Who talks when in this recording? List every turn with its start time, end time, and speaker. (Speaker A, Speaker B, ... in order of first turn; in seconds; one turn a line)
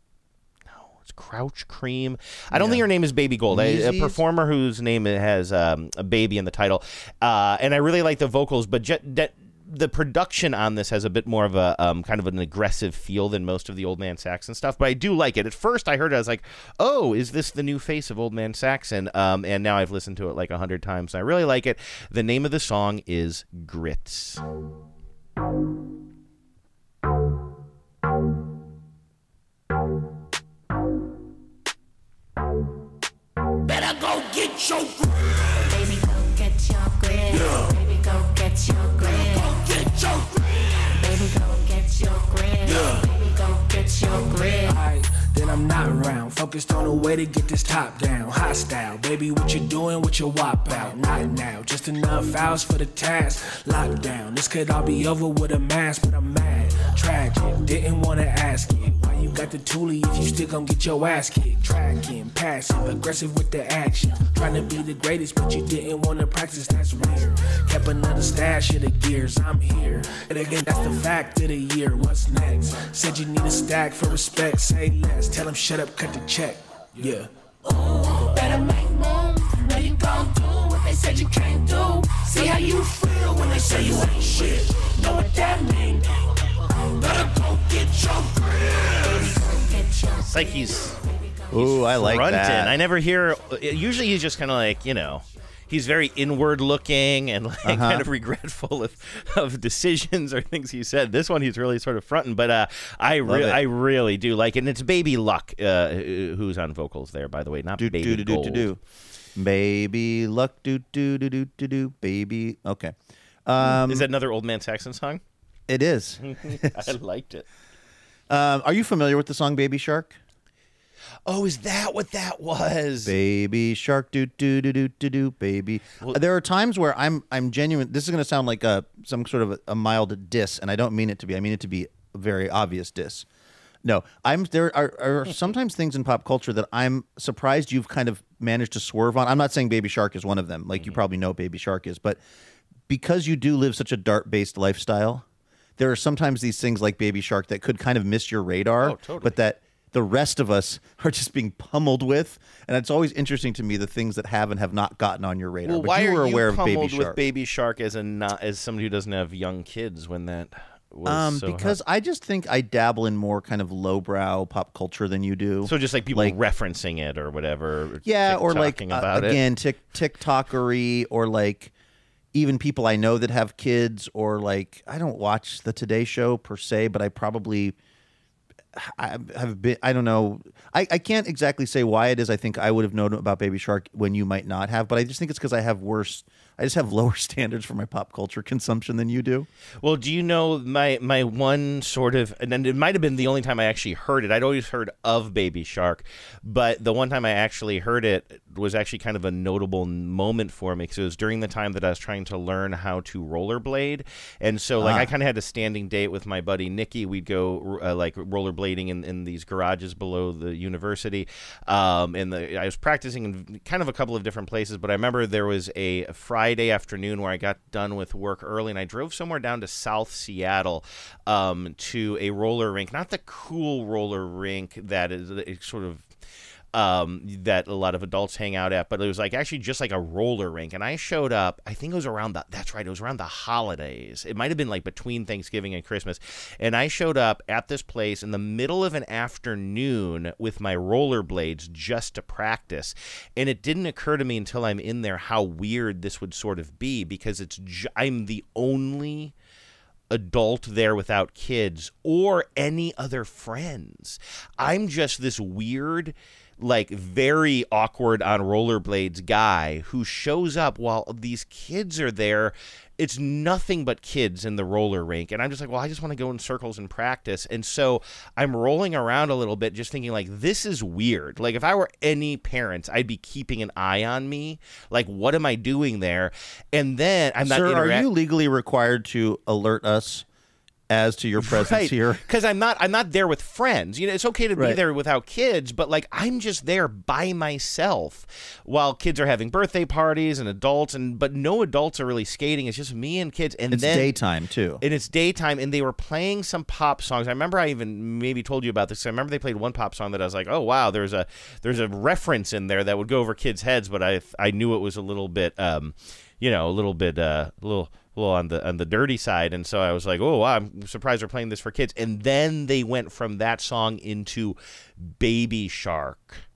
Speaker A: 0.7-24.4
Speaker B: 2.5-2.9
Speaker B: 3.5-4.2
Speaker C: 35.7-39.6
Speaker D: 37.3-37.6
Speaker C: 41.0-44.8
Speaker D: 42.6-43.1
Speaker D: 44.6-77.3
Speaker D: 78.2-79.0
Speaker D: 79.6-86.2
Speaker C: 80.7-81.1
Speaker C: 85.1-85.5
Speaker D: 87.2-88.3
Speaker C: 89.1-90.3
Speaker A: 90.2-91.0
Speaker B: 91.5-92.8
Speaker A: 91.6-108.7
Speaker B: 97.6-98.1
Speaker B: 103.2-103.6
Speaker B: 107.8-108.8
Speaker B: 109.4-112.9
Speaker B: 113.5-114.1
Speaker A: 113.6-115.2
Speaker B: 115.7-116.9
Speaker A: 116.2-117.5
Speaker B: 118.3-120.2
Speaker A: 121.3-123.1
Speaker B: 123.0-133.3
Speaker B: 133.8-142.2
Speaker B: 142.9-145.3
Speaker B: 145.8-157.2
Speaker A: 148.8-149.4
Speaker A: 155.7-161.8
Speaker B: 161.1-166.4
Speaker A: 165.6-169.4
Speaker B: 168.1-171.7
Speaker B: 172.3-177.8
Speaker B: 178.7-189.5
Speaker A: 189.8-226.1
Speaker B: 204.8-205.1
Speaker A: 226.7-249.3
Speaker A: 250.1-278.1
Speaker B: 277.4-280.3
Speaker B: 280.9-282.2
Speaker A: 281.4-294.2
Speaker B: 293.7-294.8
Speaker A: 294.8-316.4